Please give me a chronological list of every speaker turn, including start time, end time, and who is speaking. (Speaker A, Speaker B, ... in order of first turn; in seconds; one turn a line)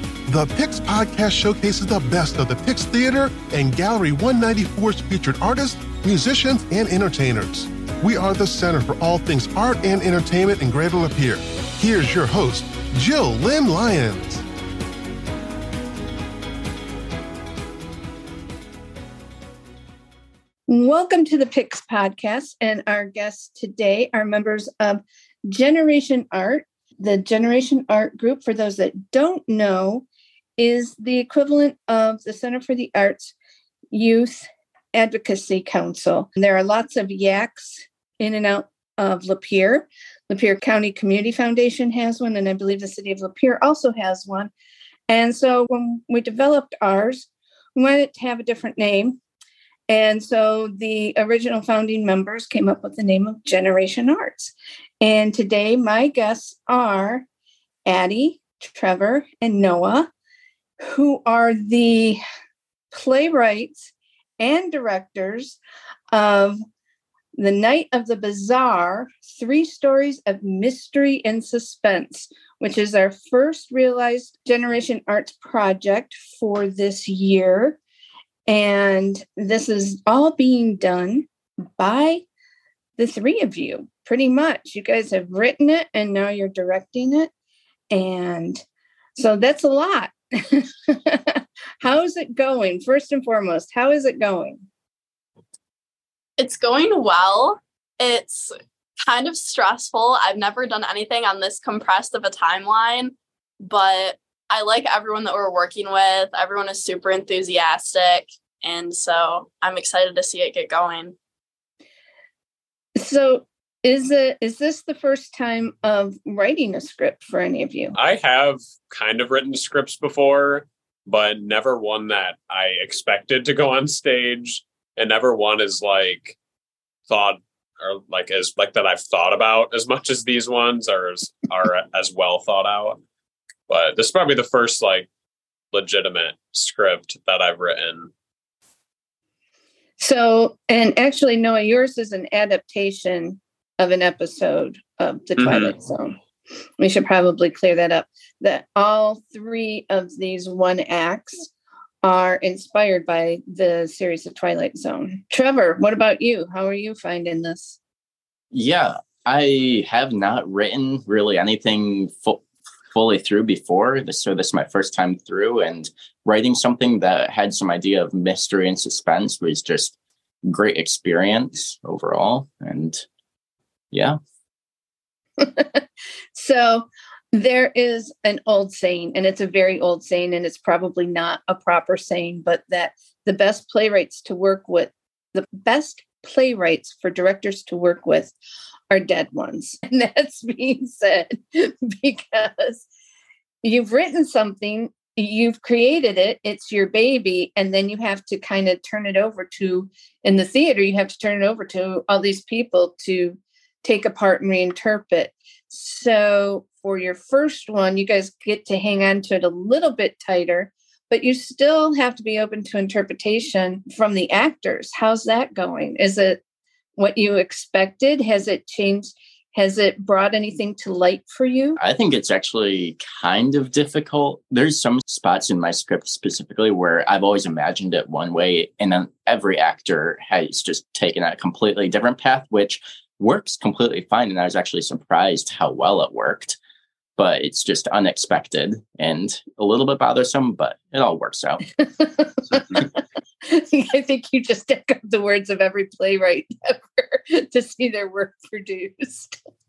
Speaker A: 0.3-14.4
Speaker B: 20.7-30.1
Speaker B: 30.6-33.4
Speaker B: 33.9-44.5
Speaker B: 45.1-49.2
Speaker B: 49.9-57.3
Speaker B: 57.9-60.1
Speaker B: 60.8-62.2
Speaker B: 62.9-65.6
Speaker B: 66.1-66.6
Speaker B: 67.4-77.8
Speaker B: 78.5-81.3
Speaker B: 81.8-82.2
Speaker B: 83.0-87.3
Speaker B: 87.9-88.6
Speaker B: 89.2-94.6
Speaker C: 96.4-111.2
Speaker B: 113.0-118.0
Speaker D: 118.0-126.4
Speaker D: 127.1-133.0
Speaker D: 133.7-135.1
Speaker D: 135.7-138.1
Speaker B: 140.0-146.2
Speaker D: 145.4-145.7
Speaker B: 146.8-151.5
Speaker B: 152.0-157.8
Speaker E: 158.5-173.1
Speaker E: 173.9-174.2
Speaker B: 175.4-188.3
Speaker B: 188.9-192.9
Speaker B: 193.6-216.4
Speaker B: 217.0-221.8
Speaker E: 221.8-236.6
Speaker E: 237.2-241.7
Speaker B: 241.8-242.9
Speaker B: 243.4-249.4